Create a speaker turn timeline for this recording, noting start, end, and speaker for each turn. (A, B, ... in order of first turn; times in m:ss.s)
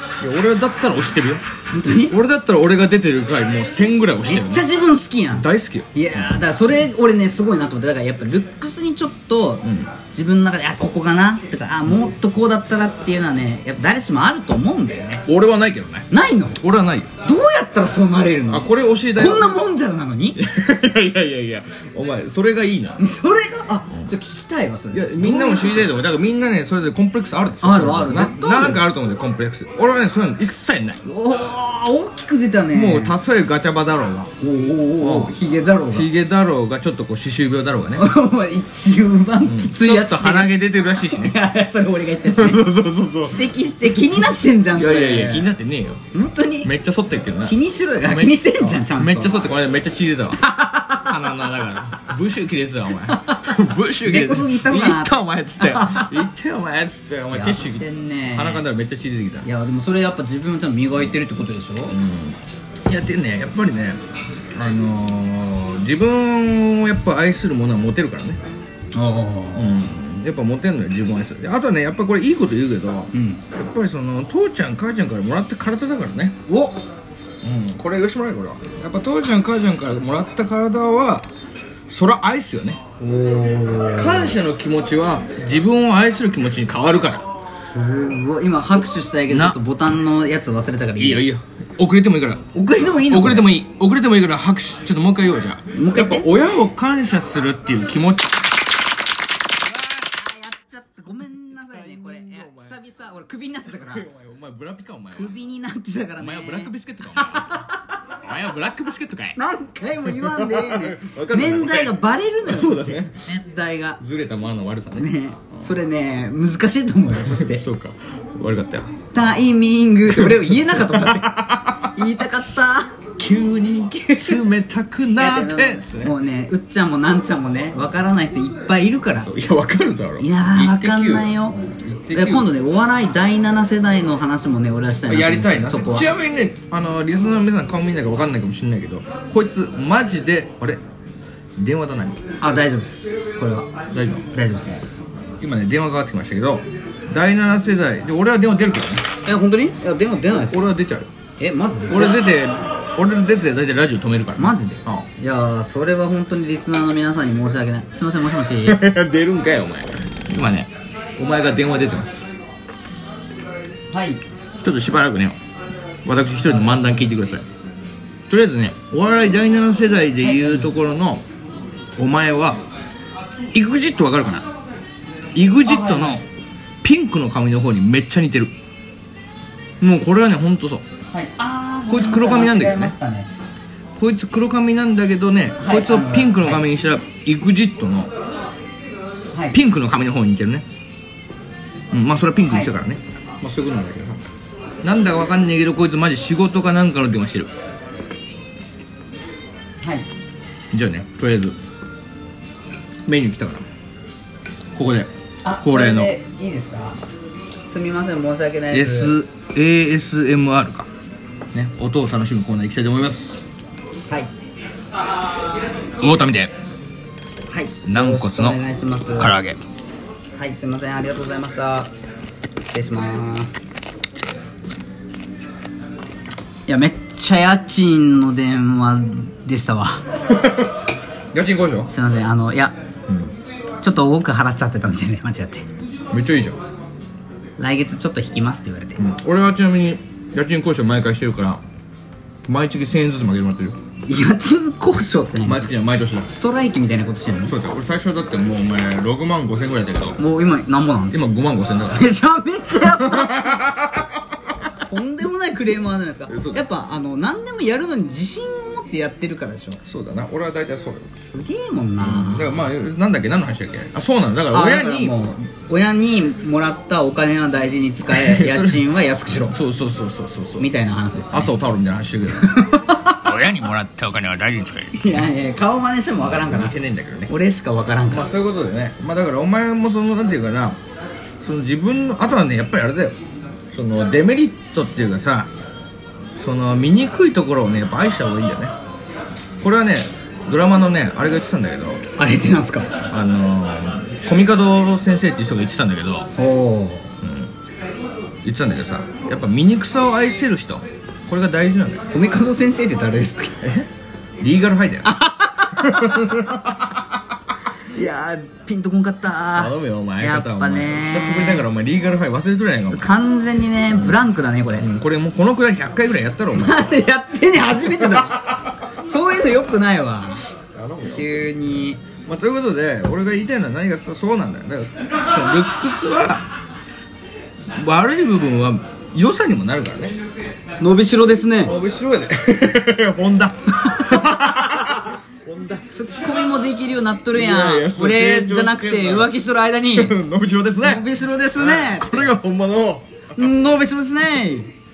0:00.2-0:01.4 A
0:01.7-0:02.2 B
0:02.1-0:04.7 A
0:04.2-0:15.2 B
0:05.4-0:05.9 A
0:09.6-0:09.9 A
0:15.2-0:16.1 A
0:16.1-0:16.6 B
0:16.6-0:17.1 A
0:17.2-0:20.4 B
0:18.5-0:19.6 A
0:20.4-0:23.0 A
0:23.0-0:25.9 B
0:24.9-0:31.0 A
0:27.6-0:28.8 B
0:31.0-0:33.1 B
0:32.7-0:34.3 A
0:34.4-0:36.1 B
0:35.0-0:35.3 A
0:35.9-0:38.0 A
0:38.0-0:42.6 B
0:39.4-0:41.4 A
0:42.3-0:43.4 A
0:43.2-0:45.5 B
0:44.7-0:46.0 A
0:46.1-0:46.7 B
0:46.6-0:50.4 A
0:47.4-0:49.4 B
0:50.4-0:51.1 B
0:51.0-0:59.5 A
0:53.0-0:56.2 B
0:57.3-0:58.6 B
0:59.4-1:02.0 B
1:01.9-1:04.0 A
1:04.5-1:08.4 A
1:08.9-1:09.8 B
1:09.6-1:16.4 A
1:13.1-1:13.4 B
1:16.5-1:16.8 B
1:17.4-1:21.3 A
1:21.9-1:22.8 A
1:23.0-1:24.3 B
1:24.0-1:27.2 A
1:27.6-1:31.2 B
1:29.3-1:29.6 A
1:31.0-1:32.4 A
1:32.5-1:33.5 B
1:33.0-1:38.4 A
1:35.7-1:36.3 B
1:39.8-1:44.0 B
1:41.7-1:42.8 A
1:43.8-1:45.3 A
1:45.1-1:47.7 B
1:46.2-1:47.5 A
1:48.2-1:49.4 A
1:49.4-1:54.0 B
1:50.0-1:53.4 A
1:54.0-1:55.6 A
1:55.0-1:57.6 B
1:57.1-1:58.9 A
1:59.1-2:02.9 B
2:00.1-2:01.9 A
2:03.2-2:06.1 A
2:05.2-2:09.3 B
2:09.1-2:12.5 A
2:10.2-2:11.5 B
2:12.1-2:16.1 B
2:15.0-2:20.8 A
2:21.6-2:22.2 A
2:22.4-2:23.7 B
2:23.9-2:24.2 A
2:24.3-2:25.0 B
2:25.4-2:29.0 A
2:29.2-2:30.7 B
2:30.3-2:31.1 A
2:31.4-2:32.2 B
2:31.9-2:35.1 A
2:34.4-2:38.8 B
2:38.6-2:42.3 A
2:43.9-2:44.2 B
2:44.6-2:45.4 A
2:46.0-2:47.4 A
2:46.6-2:47.0 B
2:48.3-2:51.2 A
2:50.2-2:50.7 B
2:52.0-2:52.6 A
2:53.5-2:54.4 A
2:55.3-2:56.2 A
2:55.6-2:56.2 B
2:56.8-2:58.5 A
2:59.8-3:00.8 A
3:01.1-3:03.3 B
3:01.9-3:02.9 A
3:04.0-3:08.1 A
3:05.6-3:06.6 B
3:09.5-3:10.6 A
3:11.9-3:14.2 A
3:14.8-3:17.5 A
3:20.7-3:21.6 A
3:23.0-3:23.6 A
3:24.7-3:25.1 A
3:25.4-3:27.0 B
3:25.6-3:26.1 A
3:27.6-3:29.1 B
3:28.7-3:30.9 A
3:31.5-3:33.4 A
3:36.0-3:36.5 A
3:37.5-3:39.4 B
3:37.8-3:38.6 A
3:39.2-3:39.6 A
3:40.4-3:41.9 B
3:42.7-3:43.8 B
3:46.7-3:50.0 B
3:50.3-3:50.7 A
3:51.3-3:51.9 A
3:51.9-3:52.7 B
3:53.1-3:53.3 A
3:53.8-3:55.6 B
3:56.1-3:56.6 A
3:57.6-3:59.0 B
3:59.0-4:01.6 A
4:02.4-4:03.8 A
4:04.0-4:05.7 B
4:05.4-4:06.3 A
4:06.3-4:07.5 B
4:07.4-4:10.2 A
4:10.2-4:11.2 B
4:11.1-4:12.1 A
4:11.9-4:13.6 B
4:12.7-4:14.1 A
4:14.8-4:19.8 B
4:16.3-4:16.6 A
4:19.8-4:21.1 A
4:21.2-4:22.6 B
4:22.0-4:25.1 A
4:24.5-4:29.6 B
4:28.1-4:28.8 A
4:29.5-4:30.7 A
4:30.6-4:31.5 B
4:31.3-4:32.5 A
4:32.3-4:33.2 B
4:33.2-4:35.3 A
4:34.9-4:36.7 B
4:36.2-4:37.3 A
4:37.3-4:38.3 B
4:38.1-4:40.8 A
4:41.4-4:43.2 A
4:43.7-4:45.5 A
4:46.4-4:48.7 A
4:49.6-4:52.0 A
4:52.2-4:52.9 B
4:53.1-4:56.3 A
4:56.4-4:57.1 B
4:57.2-4:57.5 A
4:58.4-5:02.1 A
5:02.1-5:03.6 B
5:03.6-5:03.9 A
5:04.4-5:05.1 A
5:05.0-5:06.7 B
5:05.8-5:07.0 A
5:07.9-5:11.6 B
5:09.5-5:13.1 A
5:12.9-5:14.8 B
5:13.9-5:14.2 A
5:14.8-5:17.0 A
5:16.5-5:20.4 B
5:17.8-5:18.4 A
5:20.7-5:26.4 A
5:21.1-5:22.0 B
5:27.7-5:30.2 A
5:30.8-5:31.7 B
5:31.6-5:35.8 A
5:34.0-5:34.6 B
5:35.9-5:40.2 B
5:37.3-5:39.3 A
5:39.9-5:43.5 A
5:40.8-5:42.3 B
5:43.3-5:44.7 B